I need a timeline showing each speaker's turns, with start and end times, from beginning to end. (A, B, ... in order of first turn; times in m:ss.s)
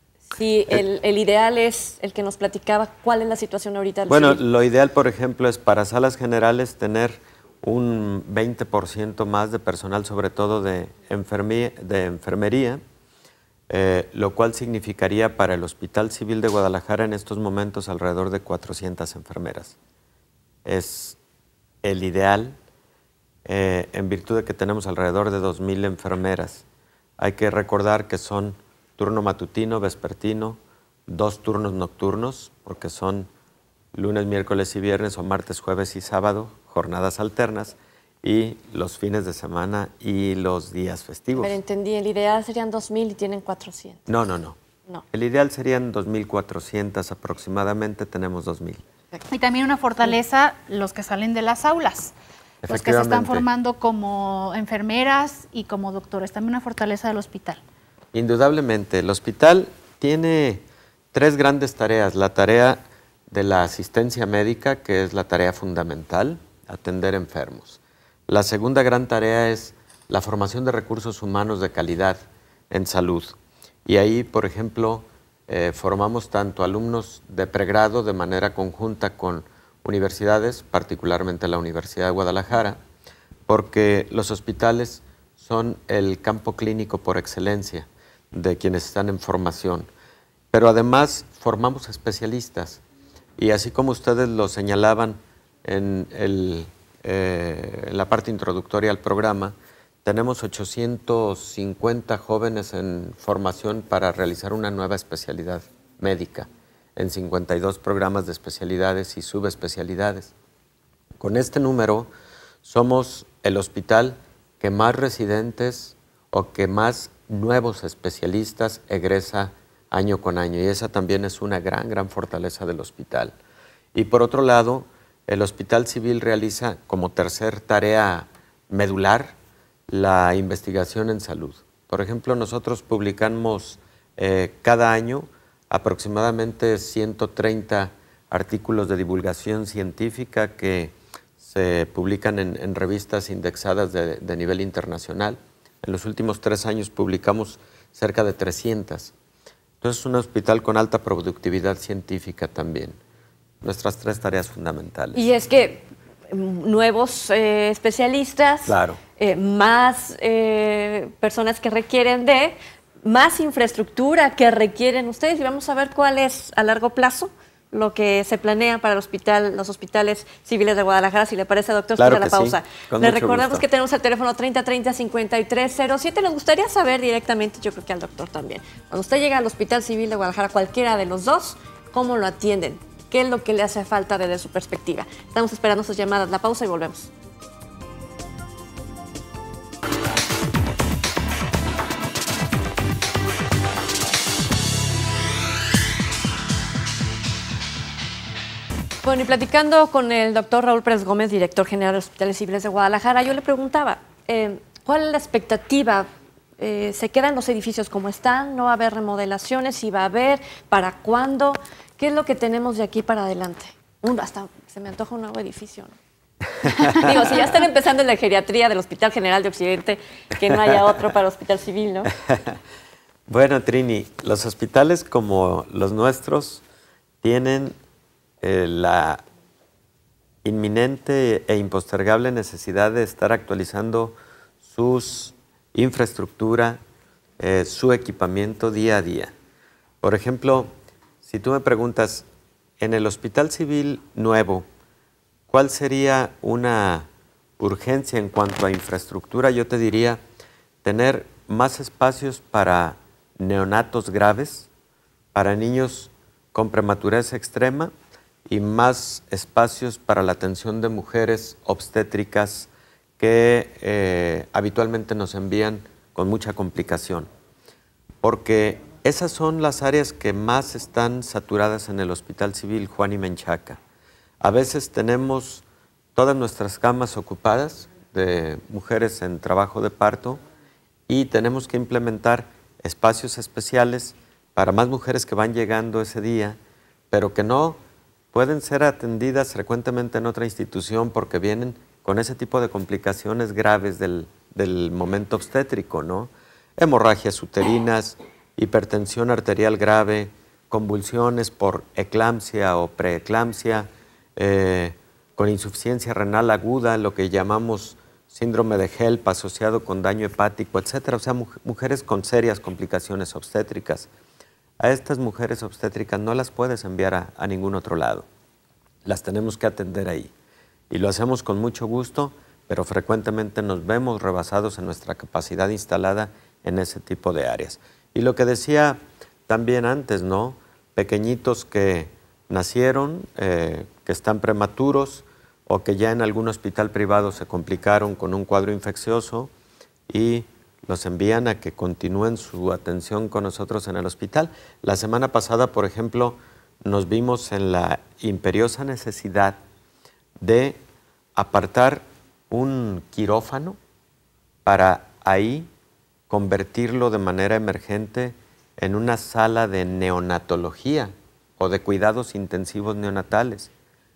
0:00.3-0:04.4 A
0:04.1-0:12.8 B
0:13.7-0:19.8 B
0:20.6-0:21.2 B
0:21.8-0:22.6 B
0:23.4-0:26.6 B
0:27.2-0:33.3 B
0:33.9-0:41.6 B
0:41.4-0:44.1 A
0:44.1-0:44.6 B
0:45.1-0:48.8 B
0:49.3-0:52.1 C
0:52.6-0:53.4 B
0:52.7-0:57.6 C
0:58.1-1:22.8 B
1:23.5-1:29.9 B
1:30.5-1:32.8 B
1:33.4-1:50.3 B
1:51.2-1:52.1 B
1:52.6-2:03.4 B
2:03.9-2:09.4 B
2:09.9-2:29.1 B
2:29.8-2:33.0 B
2:33.6-2:35.3 B
2:35.1-3:07.1 A
2:38.6-2:39.0 B
2:52.0-2:53.6 B
3:19.0-3:36.0 A
3:36.6-3:37.4 B
3:36.6-3:42.1 A
3:42.2-3:42.6 B
3:43.3-3:46.6 B
3:47.2-3:47.8 B
3:48.4-3:49.2 B
3:50.4-3:56.8 B
3:57.4-3:59.3 B
4:00.0-4:02.2 B
4:02.8-4:04.6 B
4:05.5-4:07.1 B
4:07.6-4:10.2 B
4:10.8-4:14.7 B
4:15.3-4:17.9 B
4:18.5-4:27.3 B
4:28.2-4:33.8 B
4:34.4-4:35.6 B
4:36.2-4:40.4 B
4:41.1-4:46.6 B
4:47.1-4:47.8 B
4:48.3-5:14.1 B
5:14.8-5:18.2 B
5:19.0-5:20.3 B
5:20.9-5:39.5 B
5:40.1-5:49.6 B
5:50.4-5:50.8 B
5:51.4-5:53.8 B
5:54.6-5:55.7 B
5:56.3-6:03.7 B